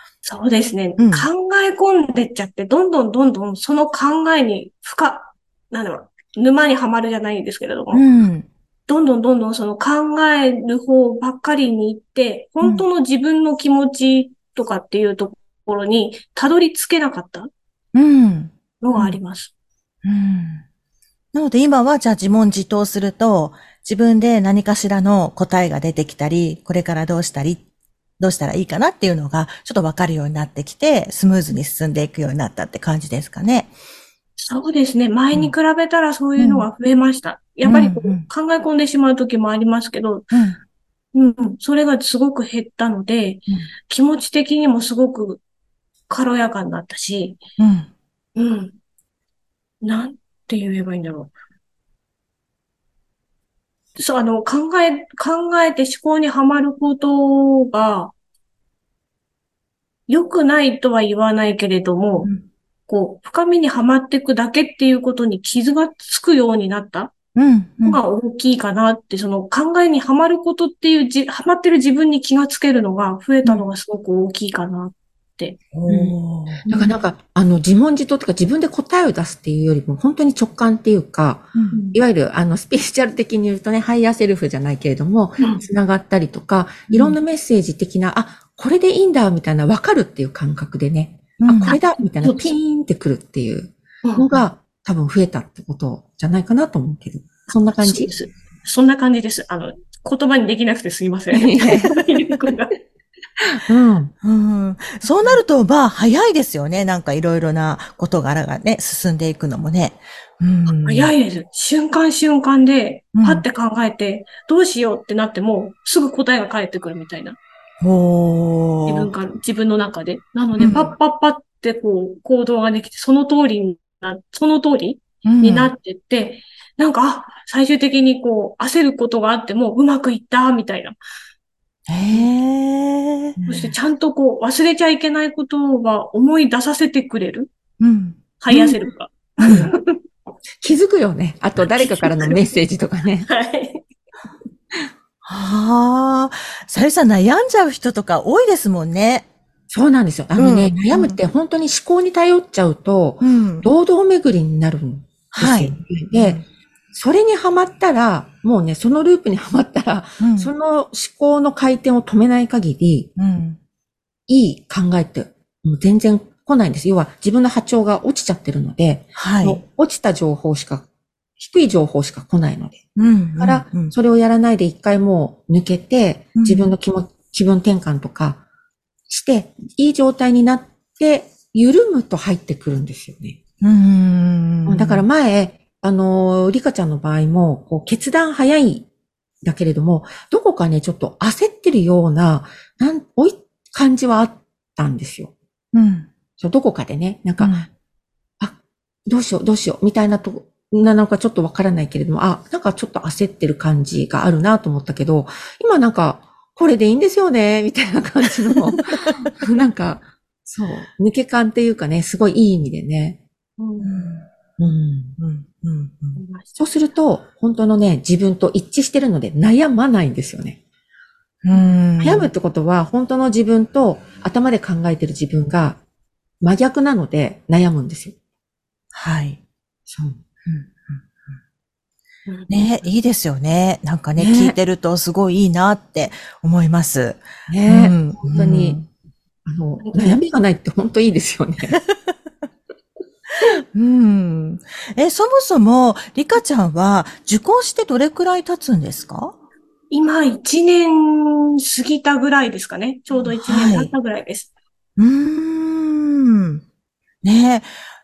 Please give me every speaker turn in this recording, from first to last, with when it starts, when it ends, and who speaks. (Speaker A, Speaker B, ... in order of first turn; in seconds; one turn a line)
Speaker A: 0.2-8.0
Speaker B: 1.0-1.3
Speaker B: 7.9-8.5
Speaker A: 8.9-17.5
Speaker B: 12.6-12.9
Speaker B: 17.9-19.2
Speaker A: 18.8-19.5
Speaker B: 20.0-20.6
Speaker B: 21.3-27.6
Speaker B: 28.2-33.7
Speaker A: 34.4-40.3
Speaker B: 36.4-36.7
Speaker B: 37.6-38.3
Speaker B: 40.3-40.6
Speaker A: 41.1-45.4
Speaker A: 46.1-47.4
Speaker B: 47.6-47.9
Speaker A: 48.4-48.8
Speaker A: 49.8-51.3
Speaker A: 54.0-58.1
Speaker A: 60.1-62.3
Speaker A: 62.9-67.1
Speaker B: 67.3-68.0
Speaker A: 67.8-75.6
Speaker B: 75.7-76.6
Speaker C: 75.9-98.1
Speaker A: 76.7-77.0
Speaker B: 81.5-81.8
Speaker A: 81.7-82.0
Speaker A: 86.9-87.2
Speaker B: 91.4-91.8
Speaker A: 91.6-92.5
Speaker A: 97.5-102.7
Speaker C: 101.3-102.0
Speaker C: 103.5-104.1
Speaker B: 104.2-111.1
Speaker A: 110.7-117.4
Speaker B: 113.1-113.4
Speaker B: 117.8-119.1
Speaker A: 118.9-130.9
Speaker B: 120.6-120.9
Speaker B: 125.2-125.7
Speaker B: 131.9-133.4
Speaker A: 133.5-137.5
Speaker B: 137.8-138.8
Speaker A: 138.4-140.0
Speaker B: 139.4-139.7
Speaker C: 140.6-143.3
Speaker A: 141.6-142.4
Speaker A: 143.2-143.8
Speaker B: 145.2-149.3
Speaker C: 149.7-156.4
Speaker B: 150.3-151.2
Speaker B: 153.2-153.7
Speaker B: 155.3-156.4
Speaker C: 156.9-163.1
Speaker B: 160.2-160.5
Speaker B: 163.2-163.6
Speaker C: 164.3-170.9
Speaker B: 169.1-169.6
Speaker C: 171.4-172.9
Speaker B: 172.9-173.9
Speaker C: 173.4-178.4
Speaker B: 176.3-176.7
Speaker C: 179.1-183.4
Speaker B: 183.6-185.1
Speaker C: 184.7-188.9
Speaker C: 189.4-195.3
Speaker B: 195.7-196.1
Speaker C: 196.4-197.6
Speaker B: 197.4-197.7
Speaker C: 198.4-213.2
Speaker A: 213.6-214.0
Speaker B: 213.8-214.2
Speaker C: 214.6-215.2
Speaker B: 215.2-216.2
Speaker A: 216.2-216.6
Speaker C: 216.6-220.6
Speaker B: 221.4-222.3
Speaker C: 222.0-225.8
Speaker C: 226.4-228.2
Speaker B: 228.9-229.4
Speaker C: 229.9-230.2
Speaker B: 230.4-231.3
Speaker A: 232.3-232.5
Speaker B: 232.5-238.9
Speaker C: 234.2-234.6
Speaker C: 237.5-238.8
Speaker C: 239.4-241.8
Speaker A: 239.8-240.2
Speaker B: 241.7-242.1
Speaker B: 243.7-249.3
Speaker A: 249.9-254.5
Speaker B: 253.2-253.9
Speaker B: 255.0-256.6
Speaker B: 257.2-257.7